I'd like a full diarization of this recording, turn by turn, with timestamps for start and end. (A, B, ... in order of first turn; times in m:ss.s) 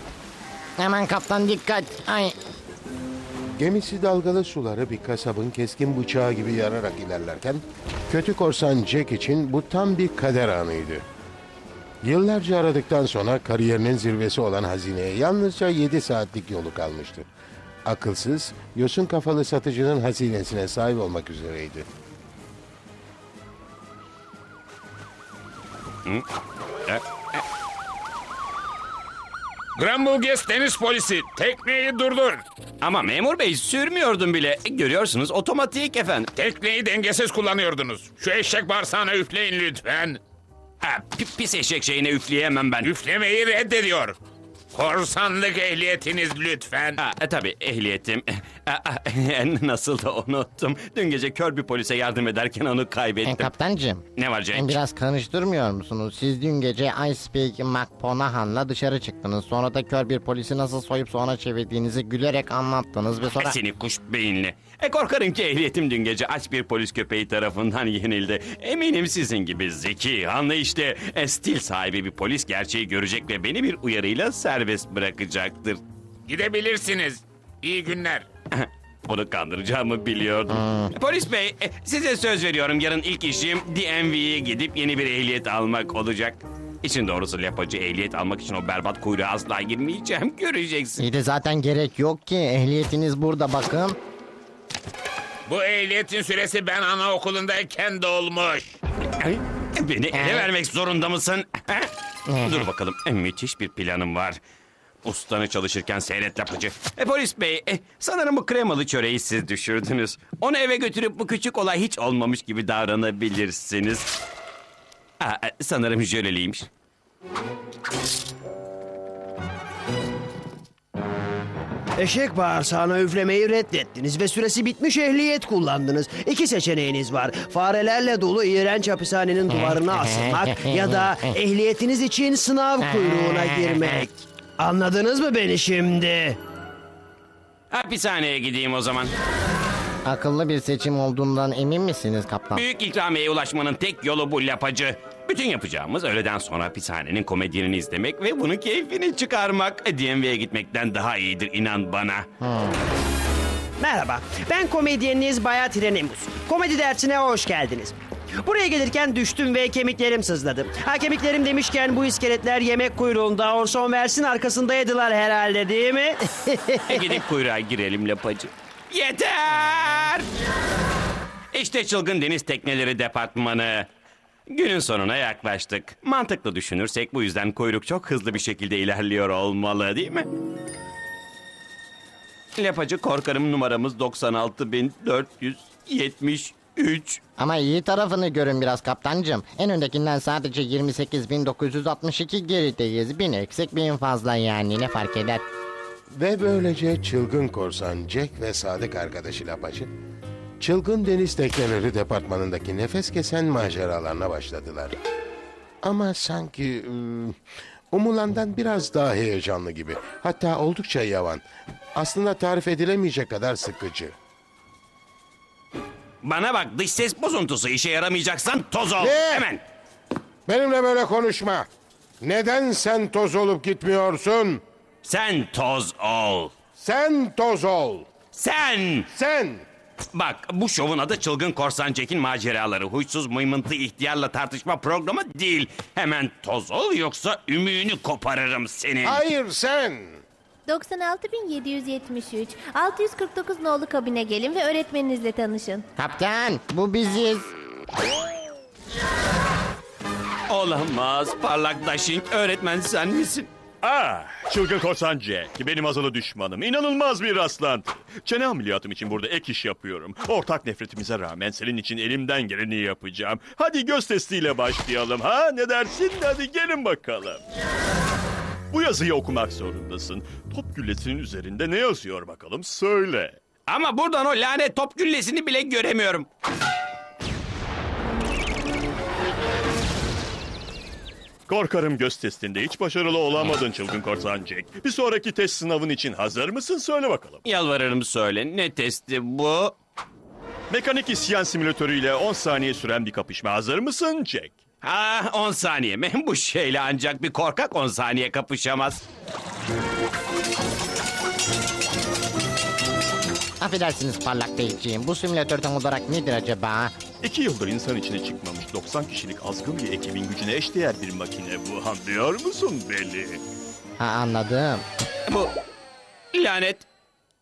0:00.8-0:02.3 A
0:03.6-0:11.0 B
0:12.0-0:17.3 B
0:17.8-0:21.9 B
0:26.8-0:27.4 C
0:29.8-0:32.4 D
0:32.8-0:36.3 C
0:36.3-0:40.2 D
0:40.8-0:42.9 C
0:42.8-0:44.2 D
0:44.7-0:47.0 D
0:47.0-0:53.5 C
0:53.2-1:03.6 A
0:54.2-0:54.8 C
1:03.4-1:15.8 C
1:16.3-1:18.3 D
1:18.5-1:31.0 C
1:20.5-1:20.9 A
1:31.0-1:34.0 A
1:35.5-1:38.8 D
1:39.2-1:41.9 C
1:40.1-1:40.5 A
1:42.3-1:42.7 A
1:42.4-1:44.4 C
1:45.0-1:54.1 C
1:55.2-1:56.7 C
2:02.0-2:16.4 E
2:09.5-2:11.4 A
2:12.8-2:14.0 A
2:17.7-2:19.1 C
2:20.0-2:22.6 A
2:22.5-2:32.3 C
2:32.4-2:32.8 A
2:33.8-2:46.8 E
2:46.9-2:50.3 C
2:51.5-2:53.9 C
2:54.5-3:00.3 C
3:02.6-3:07.2 C
3:07.4-3:15.4 A
3:16.1-3:19.9 B
3:20.6-3:25.0 B
3:25.8-3:27.4 B
3:27.9-3:31.4 B
3:31.9-3:34.1 B
3:36.2-3:39.6 C
3:39.0-3:39.5 B
3:40.4-3:41.7 B
3:42.2-3:44.6 B
3:45.0-3:46.5 C
3:46.8-3:48.1 B
3:48.3-3:49.1 C
3:49.1-3:49.6 B
3:50.1-3:59.2 C
3:59.0-4:00.2 B
4:00.7-4:05.8 F
4:06.0-4:07.5 A
4:10.5-4:13.5 C
4:13.8-4:27.4 G
4:28.7-4:33.4 G
4:33.7-4:36.3 C
4:41.5-4:47.4 G
4:47.4-4:49.8 C
4:50.7-4:54.6 G
4:54.8-4:59.0 C
5:03.6-5:06.9 A
5:07.2-5:13.4 G
5:14.0-5:14.8 A
5:15.3-5:15.5 C
5:16.3-5:16.9 C